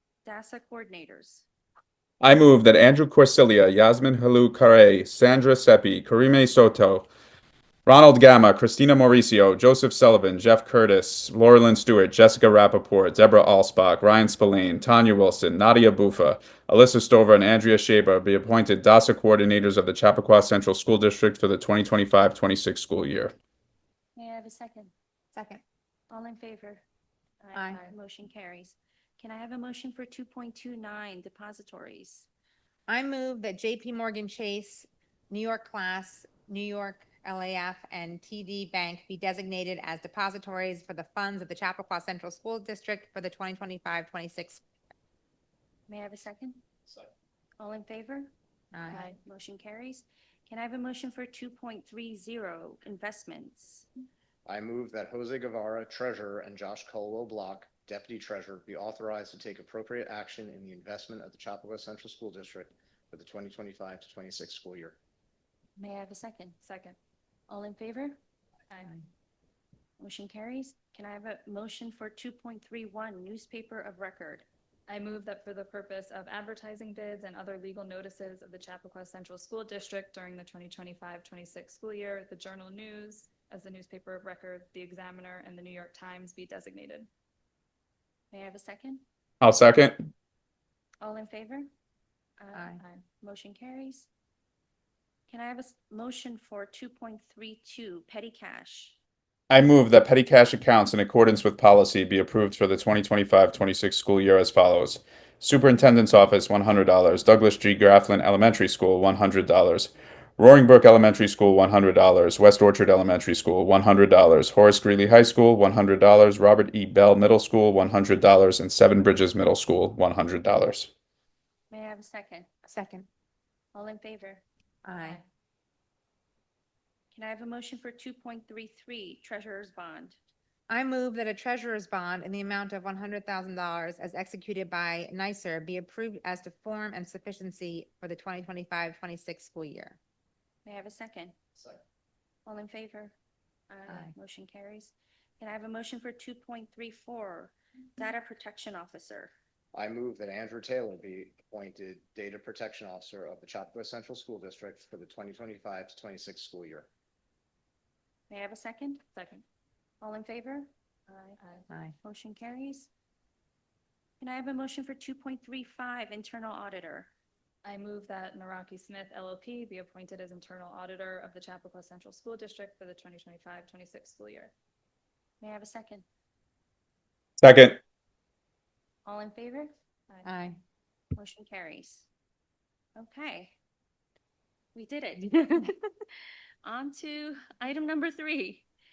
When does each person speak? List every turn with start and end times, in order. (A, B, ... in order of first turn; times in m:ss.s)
0:00.2-0:01.4 A
0:02.2-0:07.1 B
0:07.8-0:23.3 B
0:24.2-0:24.9 A
0:25.3-0:25.6 C
0:26.1-0:26.8 A
0:27.4-0:32.3 A
0:27.5-0:27.8 C
0:32.9-0:44.6 C
0:45.9-0:46.6 A
0:47.6-0:48.3 A
0:48.7-0:49.1 C
0:48.9-0:53.9 A
0:54.4-1:05.0 D
1:05.8-1:06.6 A
1:06.6-1:07.0 E
1:07.5-1:08.2 A
1:08.7-1:09.0 E
1:10.0-1:14.4 A
1:14.9-1:27.1 E
1:28.3-1:29.0 A
1:29.4-1:30.0 B
1:31.0-1:31.7 A
1:32.4-1:34.1 A
1:32.5-1:32.8 C
1:32.8-1:33.0 E
1:35.3-1:39.0 A
1:39.5-2:00.9 B
2:01.7-2:02.5 A
2:02.6-2:03.1 C
2:03.7-2:04.4 A
2:04.8-2:05.2 C
2:05.0-2:05.2 E
2:07.1-2:10.2 A
2:10.7-2:20.0 C
2:20.6-2:21.3 A
2:22.4-2:23.2 A
2:23.7-2:29.3 A
2:23.9-2:24.1 C
2:29.7-2:36.9 D
2:38.3-2:39.0 A
2:39.1-2:39.4 E
2:40.0-2:41.4 A
2:41.4-2:41.7 E
2:42.0-2:42.9 A
2:44.2-2:47.1 A
2:47.6-2:54.5 E
2:55.4-2:56.0 A
2:57.4-2:57.8 B
2:59.0-2:59.7 A
3:00.1-3:00.4 E
3:00.2-3:00.6 C
3:01.2-3:02.1 A
3:03.0-3:03.5 A
3:04.7-3:05.9 A
3:06.6-3:08.6 A